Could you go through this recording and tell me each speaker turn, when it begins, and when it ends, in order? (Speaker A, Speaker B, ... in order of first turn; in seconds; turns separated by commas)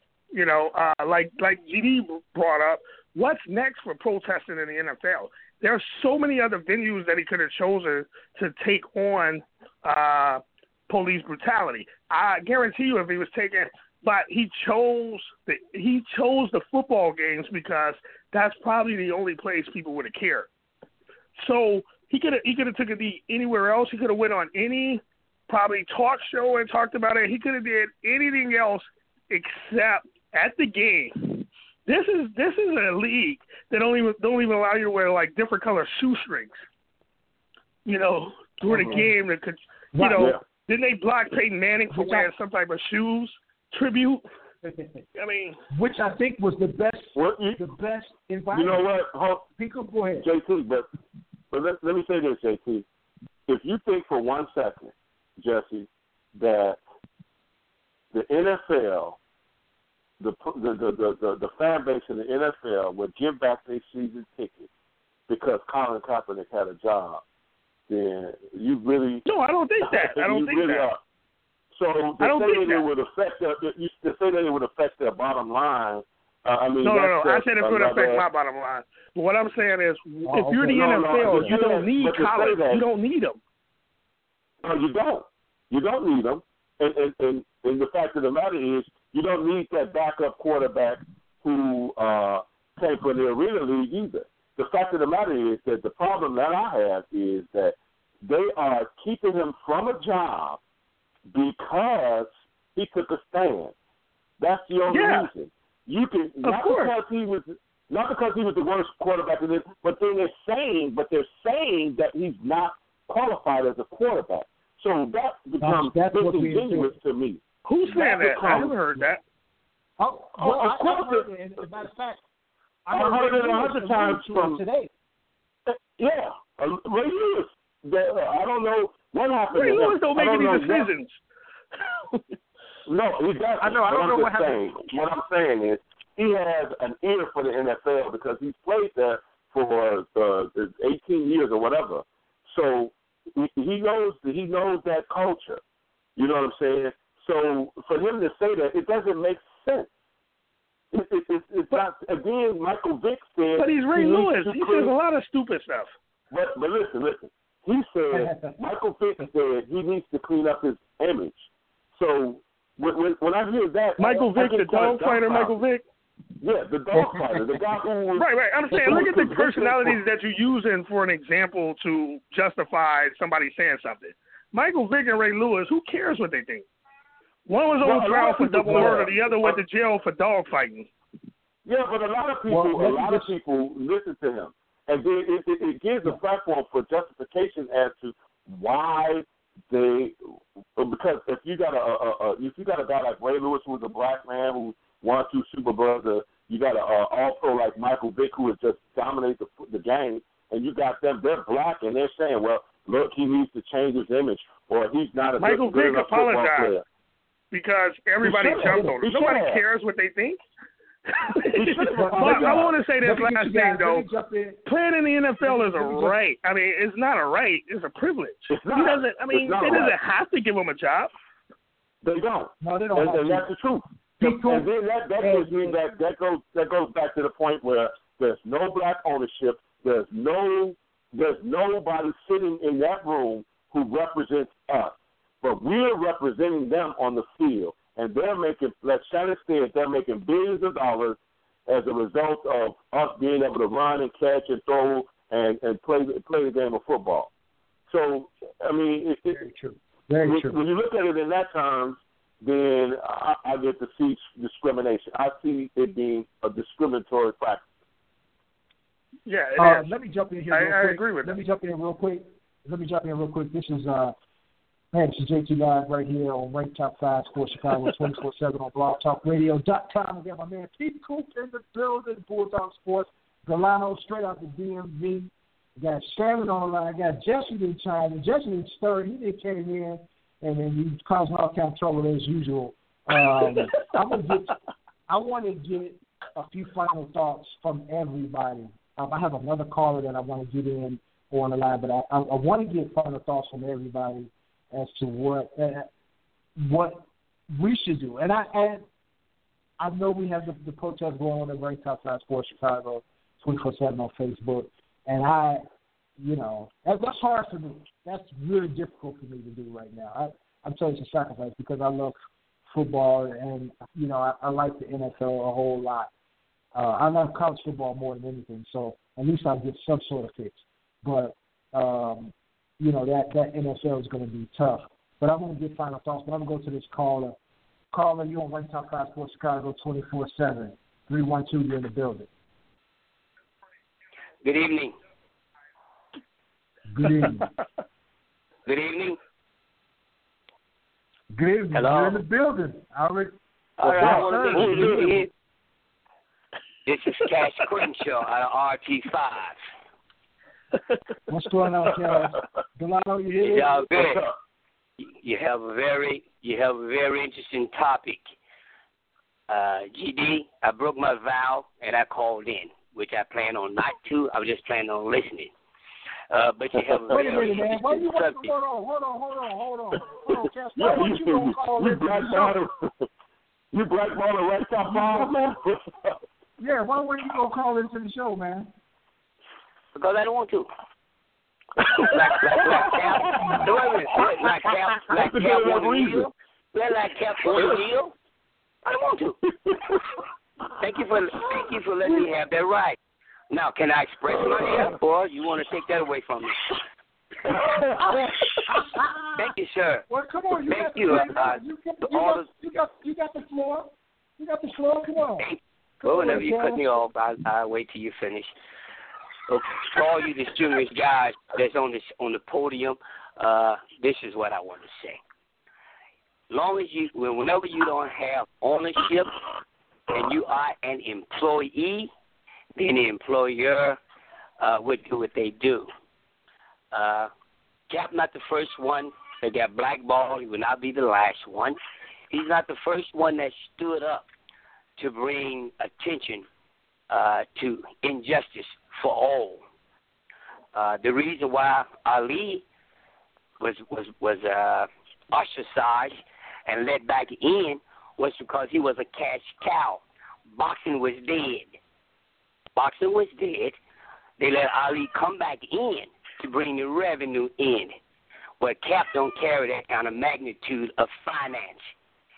Speaker A: 0.3-20.5, Speaker A: 21.4-36.6, Speaker A: 37.9-44.2, Speaker B: 38.7-39.1, Speaker B: 39.9-40.3, Speaker B: 41.9-42.3, Speaker A: 45.1-45.6, Speaker B: 45.7-48.9, Speaker C: 47.1-47.6, Speaker C: 48.5-49.5, Speaker B: 49.6-50.3, Speaker C: 50.2-50.9, Speaker C: 51.5-52.8, Speaker C: 53.5-56.8, Speaker C: 58.1-59.2, Speaker C: 60.2-64.7, Speaker C: 65.3-67.2, Speaker C: 67.9-69.2, Speaker A: 69.2-70.9, Speaker C: 69.8-71.0, Speaker C: 71.8-78.2, Speaker A: 72.2-72.9, Speaker A: 76.8-83.4, Speaker B: 80.2-81.6, Speaker C: 80.6-82.8, Speaker C: 84.6-100.6, Speaker C: 101.3-103.7, Speaker C: 104.4-118.8, Speaker A: 104.9-105.3, Speaker A: 106.4-106.9, Speaker B: 115.6-116.9, Speaker A: 117.7-119.2, Speaker B: 120.0-122.2, Speaker C: 120.4-121.3, Speaker B: 122.9-124.9, Speaker C: 122.9-124.6, Speaker C: 125.7-130.9, Speaker A: 129.5-131.2, Speaker C: 132.9-145.6, Speaker B: 133.6-135.1, Speaker C: 146.2-149.9, Speaker C: 150.9-154.9, Speaker A: 153.6-155.9, Speaker C: 156.3-165.6, Speaker B: 158.1-158.6, Speaker A: 164.0-165.8, Speaker C: 166.4-170.0, Speaker B: 167.0-167.4, Speaker A: 168.2-176.7, Speaker A: 177.5-180.9, Speaker C: 177.8-179.6, Speaker B: 178.7-179.0, Speaker C: 181.6-190.1, Speaker B: 182.5-183.3, Speaker C: 190.8-206.8, Speaker A: 205.4-206.7, Speaker A: 207.5-210.4, Speaker C: 208.2-209.6, Speaker B: 208.4-209.0, Speaker A: 211.1-214.1, Speaker C: 211.5-212.8, Speaker B: 211.9-214.6, Speaker A: 214.6-221.1, Speaker B: 215.4-216.2, Speaker C: 218.5-220.0, Speaker C: 222.0-247.3, Speaker B: 222.6-223.5, Speaker B: 224.2-224.7, Speaker B: 225.2-225.8, Speaker C: 247.9-249.4, Speaker B: 249.3-250.6, Speaker C: 250.2-257.6, Speaker A: 259.3-259.9, Speaker B: 259.6-264.1, Speaker A: 260.5-261.4, Speaker B: 264.9-284.6, Speaker B: 285.1-295.9, Speaker B: 296.6-298.9, Speaker B: 299.8-305.6, Speaker B: 306.2-312.1, Speaker B: 312.7-316.1, Speaker B: 316.7-327.4, Speaker B: 327.9-332.3, Speaker D: 334.4-334.9, Speaker B: 336.9-337.5, Speaker D: 338.6-339.2, Speaker B: 341.3-345.3, Speaker D: 341.7-342.2, Speaker D: 343.8-345.3, Speaker C: 343.8-345.1, Speaker D: 346.9-349.6, Speaker B: 351.3-353.9, Speaker D: 353.4-354.3, Speaker C: 354.0-354.3, Speaker D: 355.0-358.2, Speaker D: 359.5-365.5, Speaker D: 366.3-368.5, Speaker B: 367.1-372.6, Speaker C: 370.8-373.0, Speaker C: 373.7-376.2, Speaker B: 374.8-375.3, Speaker B: 376.6-378.7, Speaker D: 379.9-380.7, Speaker D: 381.8-388.1, Speaker C: 382.7-383.7, Speaker C: 385.1-386.3, Speaker D: 388.9-389.4, Speaker D: 390.8-393.0, Speaker D: 393.5-396.8, Speaker C: 394.5-394.8, Speaker B: 394.5-394.9, Speaker C: 397.6-398.0, Speaker D: 398.1-398.6, Speaker B: 398.7-399.5, Speaker D: 399.4-400.1, Speaker B: 400.1-405.5, Speaker D: 400.6-402.5, Speaker D: 405.4-408.5, Speaker B: 406.0-406.8, Speaker D: 409.5-415.2, Speaker D: 416.5-419.4, Speaker D: 420.1-422.1, Speaker D: 422.8-424.0, Speaker D: 424.6-425.9, Speaker D: 426.9-427.3, Speaker D: 427.9-431.8, Speaker D: 432.3-434.3, Speaker D: 435.0-436.4, Speaker D: 437.1-439.6, Speaker D: 440.7-442.6, Speaker D: 443.6-451.7, Speaker D: 452.8-453.8, Speaker D: 454.4-457.9, Speaker D: 458.6-461.9